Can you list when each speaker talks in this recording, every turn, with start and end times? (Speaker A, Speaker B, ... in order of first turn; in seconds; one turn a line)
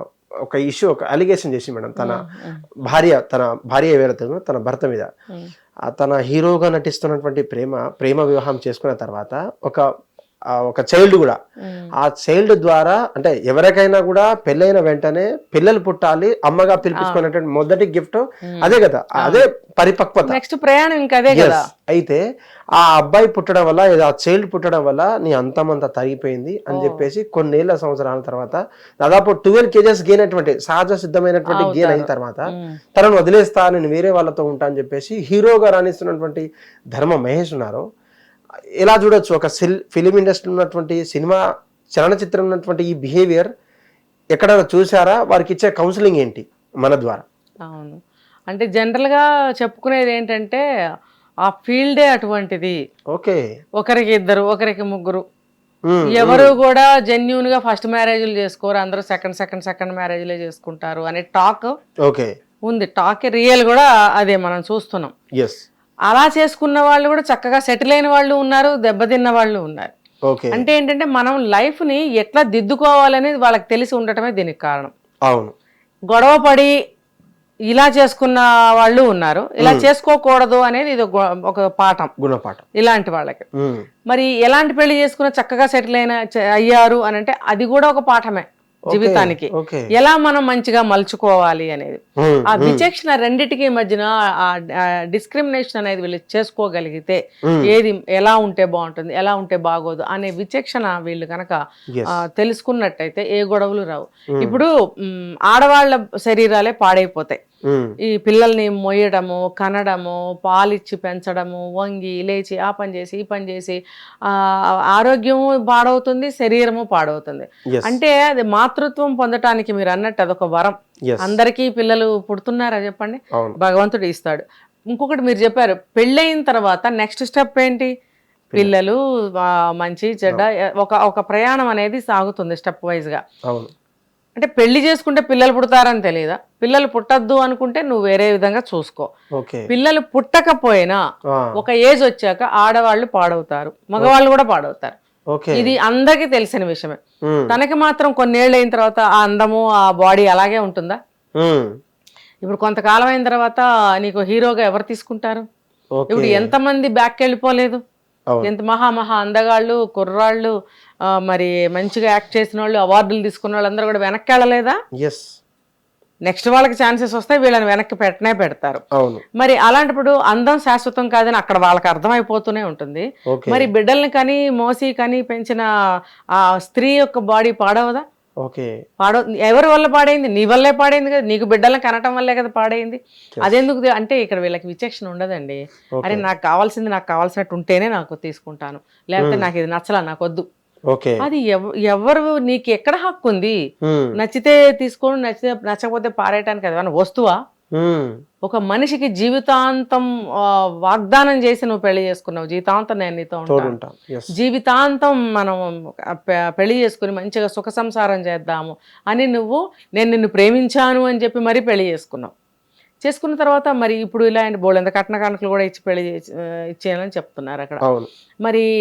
Speaker A: 0.5-2.2
Speaker B: 2.0-2.6
Speaker A: 2.8-5.1
Speaker A: 5.9-9.8
Speaker A: 10.6-11.4
Speaker B: 11.6-11.9
Speaker A: 12.0-20.4
Speaker B: 18.5-19.4
Speaker B: 20.3-21.6
Speaker A: 21.3-22.2
Speaker A: 22.8-32.4
Speaker B: 26.7-27.1
Speaker B: 31.5-32.8
Speaker A: 32.9-37.8
Speaker A: 38.8-41.4
Speaker A: 41.9-43.5
Speaker A: 44.3-47.2
Speaker B: 47.7-48.0
Speaker B: 48.5-50.6
Speaker B: 51.5-52.7
Speaker A: 53.1-53.4
Speaker B: 53.8-55.2
Speaker A: 55.9-56.5
Speaker B: 56.1-61.7
Speaker B: 62.7-65.1
Speaker A: 65.4-65.6
Speaker B: 66.1-69.9
Speaker A: 70.3-70.7
Speaker B: 70.5-74.9
Speaker A: 75.3-75.5
Speaker B: 76.1-76.7
Speaker B: 77.7-82.1
Speaker A: 79.6-79.9
Speaker A: 82.2-82.6
Speaker B: 82.8-83.4
Speaker A: 83.6-83.8
Speaker B: 84.1-92.0
Speaker A: 88.9-89.9
Speaker A: 92.2-92.8
Speaker B: 92.5-94.6
Speaker B: 95.1-97.2
Speaker B: 97.7-101.6
Speaker B: 102.2-107.4
Speaker A: 104.3-104.6
Speaker A: 107.7-107.9
Speaker B: 108.1-114.4
Speaker B: 114.9-127.9
Speaker A: 121.1-121.3
Speaker B: 128.6-133.2
Speaker B: 134.3-139.1
Speaker A: 139.3-139.7
Speaker B: 139.7-141.0
Speaker B: 141.6-144.9
Speaker A: 145.3-145.7
Speaker B: 145.6-147.0
Speaker A: 147.3-147.6
Speaker B: 147.5-151.0
Speaker A: 151.4-151.7
Speaker B: 152.4-155.4
Speaker A: 155.9-156.5
Speaker B: 156.1-157.8
Speaker B: 158.4-160.5
Speaker B: 161.2-164.8
Speaker A: 165.0-165.2
Speaker B: 166.2-168.8
Speaker A: 168.9-169.2
Speaker B: 169.4-175.6
Speaker A: 173.3-173.7
Speaker B: 176.4-178.0
Speaker A: 178.4-178.7
Speaker B: 179.0-190.4
Speaker A: 186.0-186.2
Speaker A: 189.2-189.4
Speaker A: 190.9-191.2
Speaker B: 191.2-193.6
Speaker A: 193.8-194.1
Speaker B: 194.2-197.4
Speaker A: 197.7-198.1
Speaker B: 198.4-200.0
Speaker B: 200.8-203.7
Speaker A: 203.5-204.3
Speaker B: 204.4-212.3
Speaker B: 213.0-217.8
Speaker A: 217.8-218.1